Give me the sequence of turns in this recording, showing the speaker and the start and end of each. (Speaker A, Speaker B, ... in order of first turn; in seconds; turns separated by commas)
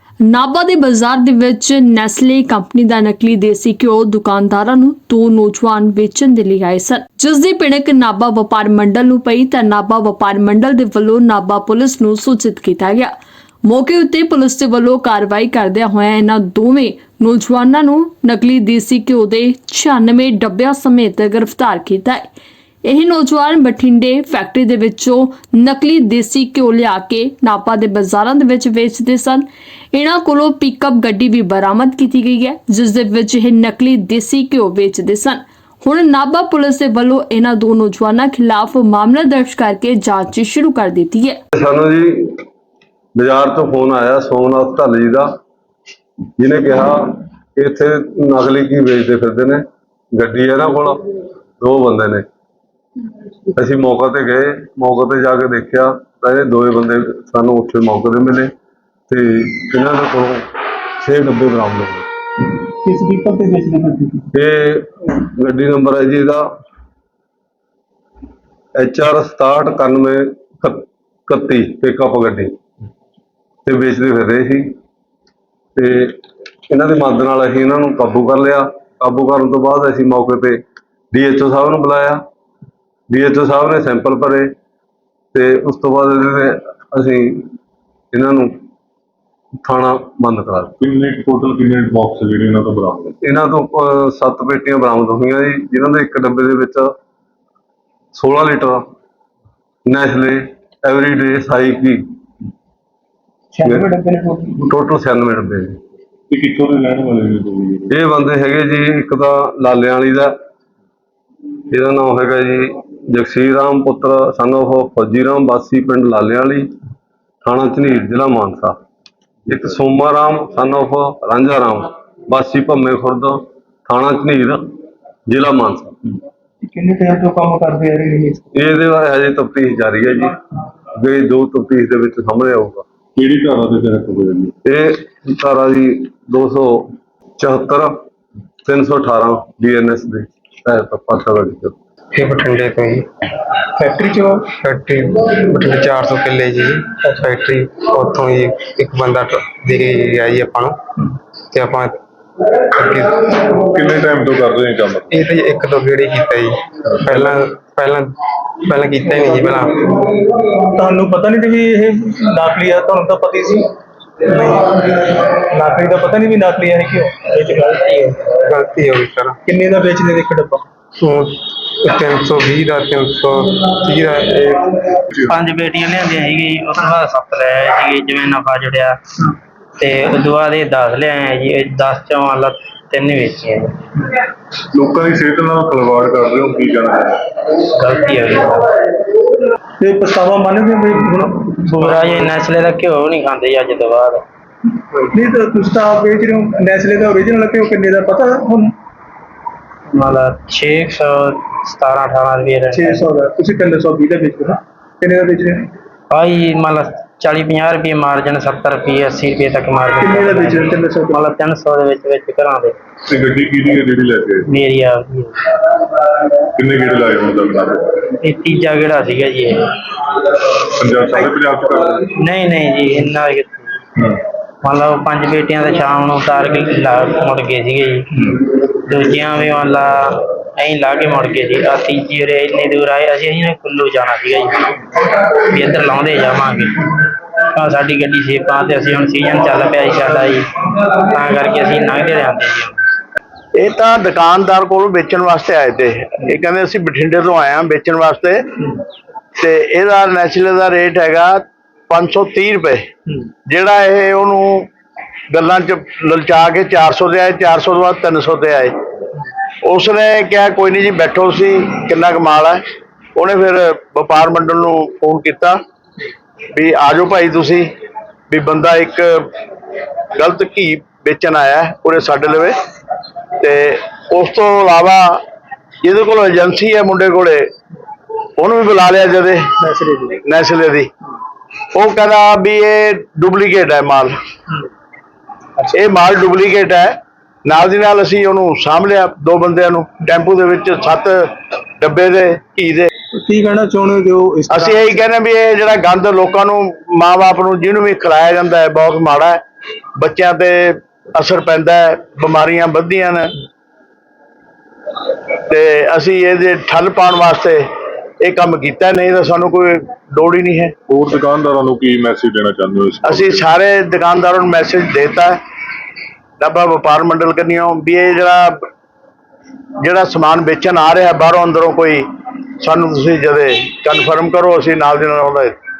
Speaker A: 0.2-22.3, Speaker A: 22.8-41.4, Speaker B: 41.5-42.4, Speaker B: 43.1-45.4, Speaker B: 46.4-51.0, Speaker B: 51.6-52.2, Speaker B: 53.5-58.5, Speaker B: 59.1-62.0, Speaker C: 62.8-64.3, Speaker B: 64.3-66.5, Speaker B: 68.8-72.5, Speaker B: 73.6-74.7, Speaker B: 75.8-82.2, Speaker B: 83.1-84.5, Speaker B: 85.3-87.5, Speaker B: 88.1-88.6, Speaker B: 89.6-90.7, Speaker D: 90.8-93.1, Speaker B: 93.2-96.9, Speaker B: 98.1-98.8, Speaker B: 99.8-102.0, Speaker C: 103.5-104.6, Speaker B: 104.6-105.8, Speaker D: 106.3-107.9, Speaker B: 107.9-110.3, Speaker B: 111.7-116.7, Speaker B: 117.4-118.8, Speaker B: 119.5-124.7, Speaker B: 125.3-126.0, Speaker C: 126.6-128.5, Speaker B: 128.5-130.4, Speaker B: 130.9-132.8, Speaker D: 133.2-134.5, Speaker B: 134.6-138.0, Speaker B: 138.6-141.7, Speaker E: 142.2-143.0, Speaker C: 143.9-144.4, Speaker E: 144.0-150.8, Speaker E: 151.5-152.0, Speaker E: 152.7-153.3, Speaker D: 153.5-155.1, Speaker E: 155.1-158.1, Speaker E: 158.7-159.9, Speaker C: 160.7-163.7, Speaker C: 164.2-168.3, Speaker E: 168.4-169.4, Speaker C: 169.5-170.7, Speaker E: 171.0-171.3, Speaker E: 171.8-174.7, Speaker F: 175.3-178.9, Speaker F: 179.8-183.8, Speaker D: 184.7-187.2, Speaker F: 187.6-188.7, Speaker C: 189.8-192.3, Speaker F: 191.4-194.2, Speaker C: 195.1-198.7, Speaker F: 199.9-203.1, Speaker C: 202.7-205.7, Speaker F: 206.1-212.8, Speaker C: 210.0-211.2, Speaker D: 213.1-214.5, Speaker F: 214.5-215.6, Speaker D: 216.6-217.9, Speaker F: 218.2-219.6, Speaker D: 220.8-222.0, Speaker F: 222.1-223.8, Speaker F: 224.6-236.9, Speaker F: 237.5-242.8, Speaker G: 243.5-248.7, Speaker G: 249.4-252.8, Speaker G: 253.5-254.7, Speaker G: 255.3-258.7, Speaker G: 259.6-262.6, Speaker G: 263.1-265.6, Speaker G: 266.5-267.7, Speaker G: 268.3-269.3, Speaker G: 270.1-272.6, Speaker G: 273.4-275.2, Speaker G: 275.8-277.4, Speaker G: 278.4-279.5, Speaker C: 279.6-280.2, Speaker G: 280.2-280.9, Speaker G: 281.7-284.1, Speaker G: 285.7-292.9, Speaker C: 293.2-295.0, Speaker G: 294.5-299.4, Speaker G: 299.9-303.3, Speaker G: 305.5-307.6, Speaker G: 308.2-310.7, Speaker D: 310.9-313.5, Speaker G: 313.0-315.4, Speaker G: 316.4-318.6, Speaker G: 319.8-322.1, Speaker G: 322.6-325.6